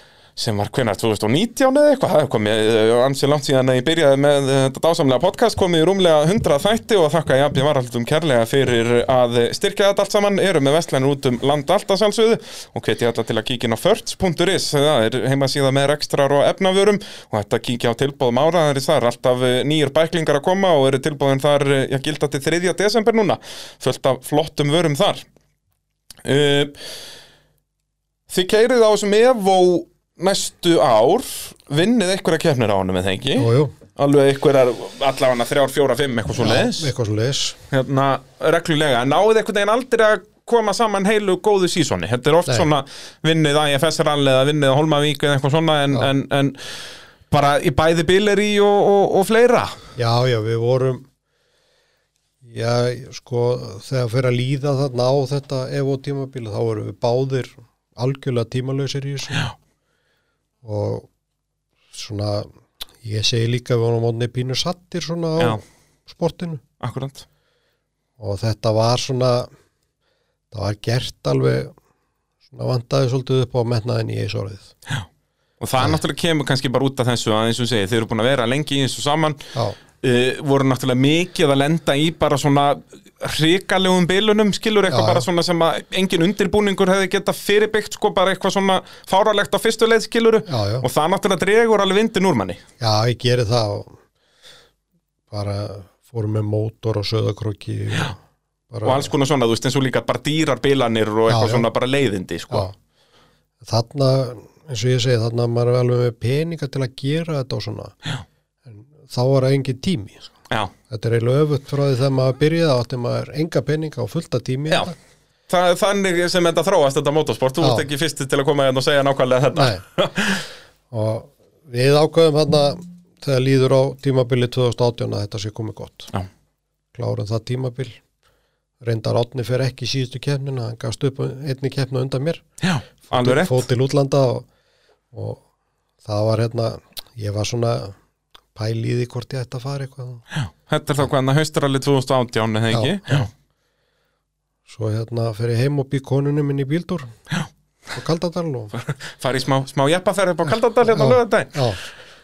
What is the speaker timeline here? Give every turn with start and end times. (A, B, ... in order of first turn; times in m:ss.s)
0:00.4-0:25.2 A
0:26.2-0:26.8 A
0:28.3-0:36.9 A
0:33.4-0:33.7 B
0:36.4-0:37.6 B
0:37.7-0:49.8 A
0:50.0-0:51.0 B
0:52.4-0:59.5 B
1:00.6-1:01.1 B
1:01.9-1:02.5 B
1:03.0-1:06.6 B
1:06.8-1:07.2 A
1:08.2-1:09.5 B
1:10.5-1:11.7 B
1:12.5-1:14.7 B
1:15.6-1:32.6 A
1:24.9-1:25.3 B
1:30.5-1:30.8 B
1:32.8-1:34.0 B
1:35.3-1:38.2 B
1:38.7-1:39.1 B
1:38.8-1:42.7 A
1:41.3-1:41.6 B
1:43.6-1:47.9 B
1:48.7-1:50.3 B
1:50.9-1:55.0 B
1:55.5-2:00.4 A
1:57.6-1:57.8 B
1:59.5-1:59.8 B
2:00.9-2:06.1 B
2:06.9-2:08.0 B
2:08.8-2:12.4 B
2:12.6-2:13.6 A
2:13.1-2:14.5 B
2:15.1-2:15.4 B
2:16.0-2:18.0 B
2:18.5-2:20.2 B
2:20.3-2:23.3 A
2:22.7-2:23.2 B
2:24.7-2:27.1 B
2:27.9-2:28.7 B
2:28.7-2:31.6 A
2:30.9-2:31.8 B